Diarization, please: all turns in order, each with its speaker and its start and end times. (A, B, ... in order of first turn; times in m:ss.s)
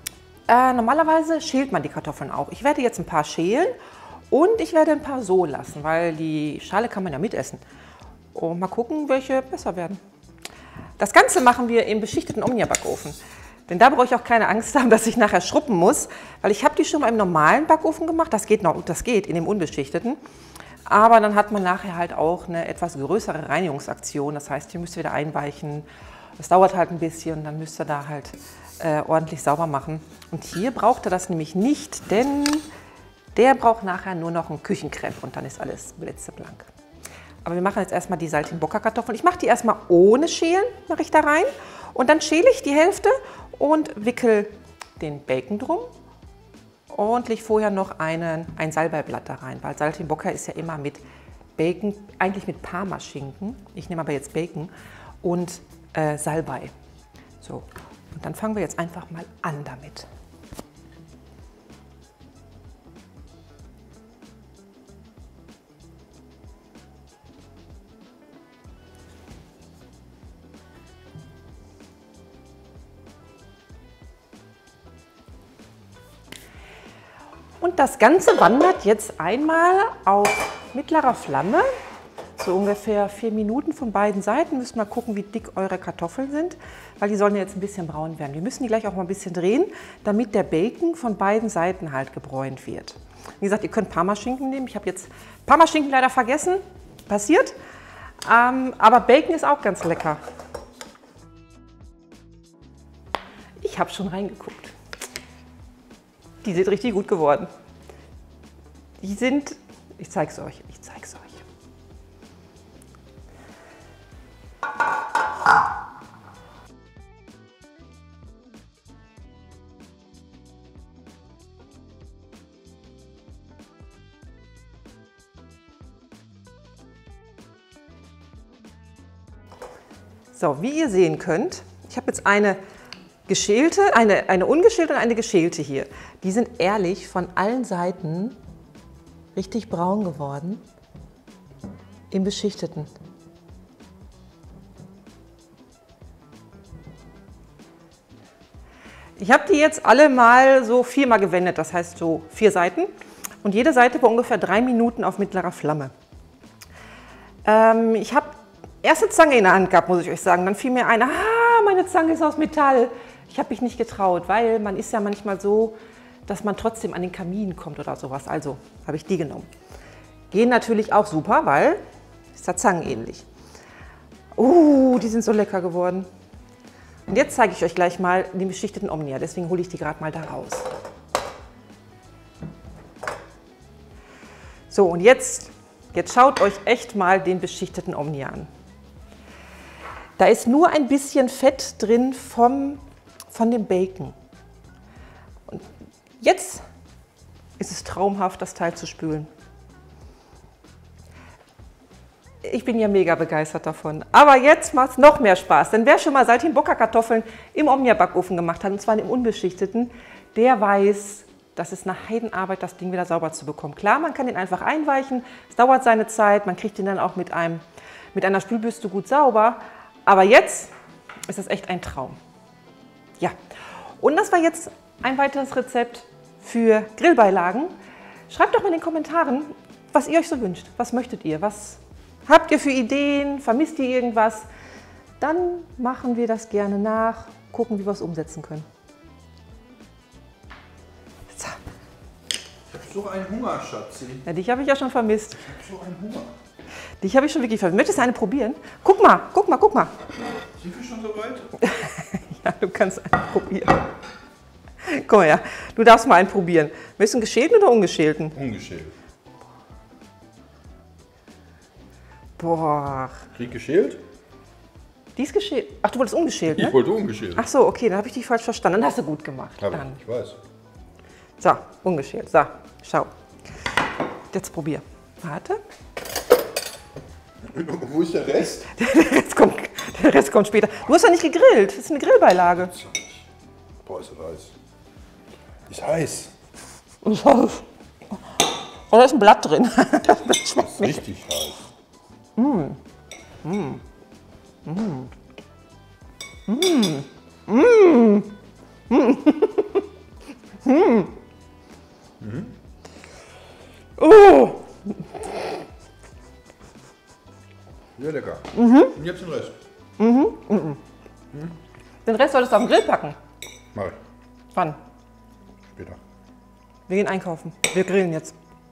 0:00.5-0:03.8 A
0:04.3-0:07.6 A
0:08.3-0:10.0 A
0:11.0-0:20.2 A
0:20.9-0:25.9 A
0:26.4-0:32.7 A
0:33.4-0:36.7 A
0:37.4-0:45.9 A
0:46.9-0:51.0 A
0:51.6-0:54.7 A
0:55.2-0:56.7 A
0:57.4-1:00.1 A
1:17.6-1:21.7 A
1:22.4-1:37.6 A
1:38.2-1:40.2 A
1:43.6-1:44.7 A
1:46.4-1:47.5 A
1:49.0-1:51.4 A
2:10.3-2:12.6 A
2:13.3-2:18.4 A
2:19.4-2:20.6 A
2:22.1-2:22.9 A
2:29.2-2:32.9 A
2:33.4-2:35.9 A
2:37.4-2:49.5 A
2:50.3-2:51.8 A
2:52.4-2:53.2 A
2:54.4-2:56.1 A
2:57.1-3:00.7 A
3:04.7-3:08.5 A
3:10.2-3:12.8 A
3:13.3-3:14.2 A
3:16.2-3:16.6 A
3:17.6-3:19.3 A
3:22.4-3:37.6 A
3:38.1-3:40.7 A
3:41.3-3:42.2 A
3:44.0-3:47.7 A
3:48.3-3:54.5 A
3:55.2-3:58.7 A
4:01.3-4:01.6 A
4:02.7-4:04.2 B
4:04.2-4:05.5 A
4:05.4-4:06.3 B
4:07.0-4:09.9 A
4:10.6-4:11.5 B
4:11.6-4:13.9 A
4:14.8-4:18.4 A
4:18.4-4:18.9 B
4:22.4-4:23.3 A
4:23.4-4:24.0 B
4:25.2-4:26.8 A
4:26.5-4:27.4 B
4:27.3-4:30.0 A
4:29.6-4:30.4 B
4:31.4-4:33.1 A
4:34.3-4:35.6 A
4:37.4-4:38.7 B
4:38.6-4:42.8 A
4:42.8-4:43.2 B
4:43.8-4:44.6 B
4:45.7-4:46.3 B
4:47.0-4:47.7 A
4:48.4-4:51.0 A
4:50.6-4:51.7 B
4:52.4-4:52.8 A
4:53.4-4:53.8 A
4:54.7-4:55.1 A
4:56.5-4:58.4 A
4:58.9-4:59.8 A
5:00.6-5:01.2 A
5:02.2-5:02.5 B
5:04.0-5:05.0 A
5:08.0-5:09.6 B
5:08.5-5:09.0 A
5:10.0-5:10.8 A
5:12.0-5:13.2 A
5:14.5-5:14.8 A
5:16.9-5:18.4 A